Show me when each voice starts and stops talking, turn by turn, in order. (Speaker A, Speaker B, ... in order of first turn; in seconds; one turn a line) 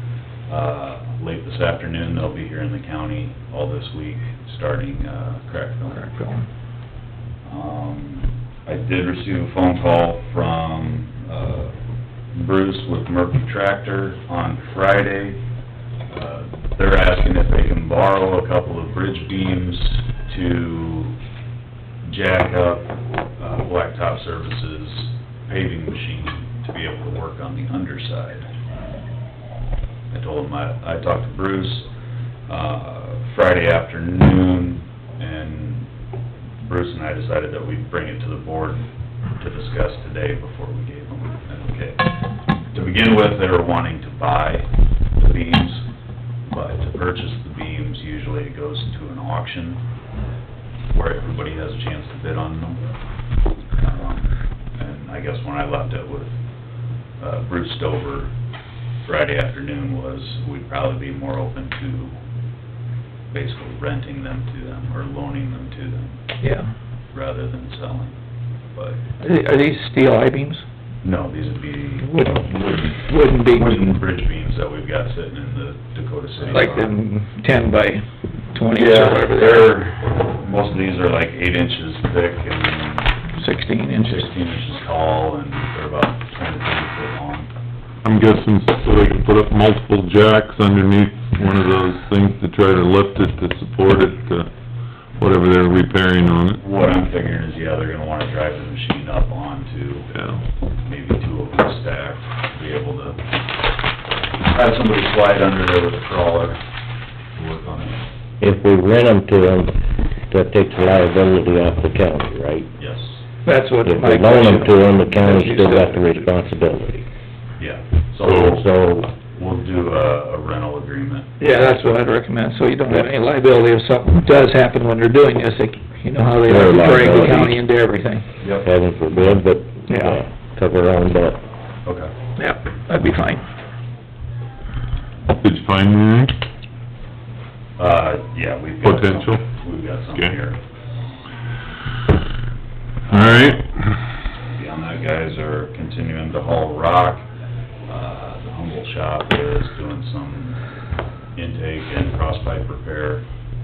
Speaker A: 0.5-6.1
Speaker B: 6.0-6.4
Speaker A: 7.5-11.7
Speaker A: 12.3-15.4
Speaker A: 16.1-21.2
Speaker A: 22.1-28.5
Speaker A: 30.1-31.9
Speaker A: 32.5-35.9
Speaker A: 36.6-38.8
Speaker A: 39.4-42.1
Speaker A: 42.7-45.9
Speaker A: 46.5-49.8
Speaker A: 50.9-52.8
Speaker A: 53.8-56.3
Speaker A: 57.2-58.3
Speaker A: 59.1-62.1
Speaker A: 63.3-66.2
Speaker B: 66.4-66.7
Speaker A: 67.1-68.1
Speaker B: 69.2-70.6
Speaker A: 71.0-77.0
Speaker B: 72.1-72.4
Speaker B: 73.0-73.8
Speaker B: 76.5-79.7
Speaker A: 78.7-83.3
Speaker B: 83.3-84.2
Speaker A: 83.9-87.5
Speaker C: 88.0-94.5
Speaker C: 95.2-96.6
Speaker A: 96.5-100.1
Speaker C: 100.1-100.4
Speaker A: 100.8-103.2
Speaker A: 104.5-106.6
Speaker A: 107.3-108.0
Speaker D: 108.4-109.7
Speaker D: 110.3-112.7
Speaker A: 112.8-113.2
Speaker B: 113.5-116.2
Speaker D: 113.8-117.1
Speaker A: 117.6-118.7
Speaker D: 118.4-119.1
Speaker A: 119.2-121.4
Speaker B: 121.4-128.2
Speaker D: 126.5-127.6
Speaker A: 128.4-128.7
Speaker D: 128.6-131.4
Speaker B: 129.9-130.2
Speaker A: 131.9-132.1
Speaker B: 132.4-133.4
Speaker C: 135.4-136.3
Speaker A: 137.8-140.6
Speaker C: 138.8-139.4
Speaker C: 143.1-144.0
Speaker A: 144.5-147.2
Speaker A: 147.9-150.6
Speaker A: 151.3-153.2